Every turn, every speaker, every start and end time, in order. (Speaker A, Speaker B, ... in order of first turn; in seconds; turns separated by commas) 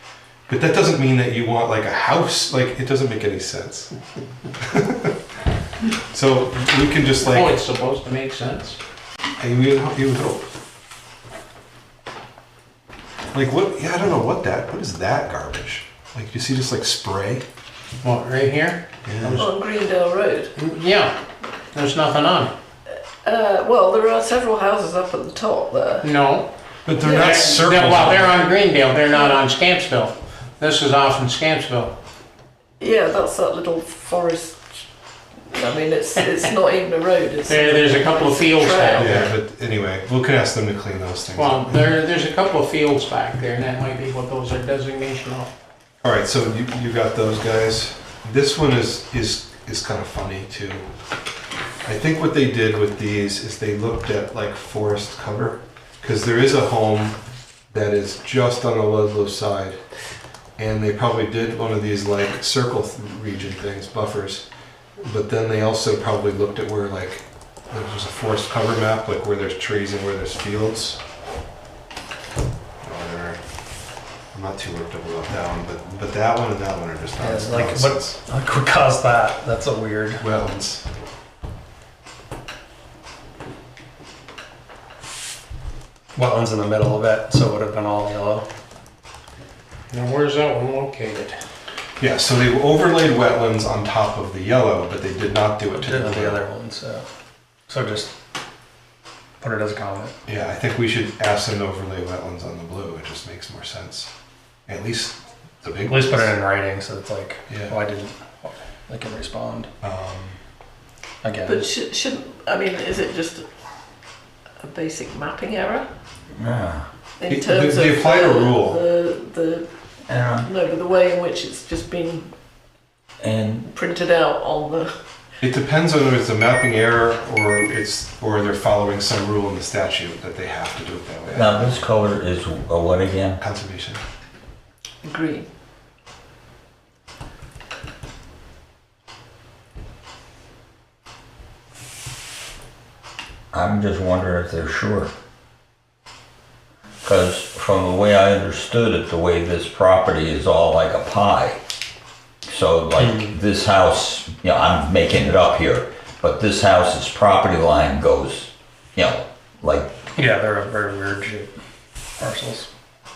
Speaker A: 0.5-3.9, Speaker A: 4.6-5.2, Speaker A: 6.1-7.5, Speaker B: 7.2-8.8, Speaker A: 9.4-10.5, Speaker A: 13.3-17.4, Speaker B: 18.0-19.4, Speaker A: 19.0-19.4, Speaker C: 19.3-20.5, Speaker B: 20.6-21.2, Speaker B: 21.7-22.5, Speaker C: 23.2-26.1, Speaker B: 26.0-26.5, Speaker A: 26.8-28.4, Speaker C: 27.0-27.6, Speaker B: 27.0-31.9, Speaker C: 29.1-29.4, Speaker C: 32.8-34.8, Speaker C: 35.5-39.2, Speaker B: 37.5-39.3, Speaker A: 39.0-41.9, Speaker B: 41.3-45.5, Speaker A: 46.0-50.9, Speaker A: 51.8-57.2, Speaker A: 57.7-59.8, Speaker A: 60.6-64.5, Speaker A: 65.0-71.0, Speaker A: 72.8-73.4, Speaker A: 74.3-78.2, Speaker D: 77.2-80.2, Speaker A: 80.2-80.8, Speaker D: 86.1-88.5, Speaker B: 89.9-91.4, Speaker A: 92.0-96.4, Speaker D: 95.7-97.0, Speaker D: 97.7-98.1, Speaker D: 99.4-100.1, Speaker A: 100.3-104.1, Speaker A: 104.7-106.3, Speaker D: 105.8-109.7, Speaker A: 107.5-107.8, Speaker A: 109.8-110.4, Speaker D: 111.2-111.7, Speaker C: 111.4-113.4, Speaker C: 114.6-115.8, Speaker E: 116.3-116.8, Speaker C: 117.2-119.7, Speaker A: 117.3-118.8, Speaker E: 120.1-120.5, Speaker C: 120.4-122.3, Speaker E: 123.2-123.7, Speaker C: 123.7-124.9, Speaker A: 125.4-131.8, Speaker E: 131.3-133.4, Speaker A: 133.4-134.0, Speaker C: 135.0-135.5, Speaker E: 143.5-145.1, Speaker E: 147.0-151.6, Speaker E: 152.4-159.9, Speaker D: 153.0-153.3, Speaker D: 160.2-161.6, Speaker D: 162.2-162.7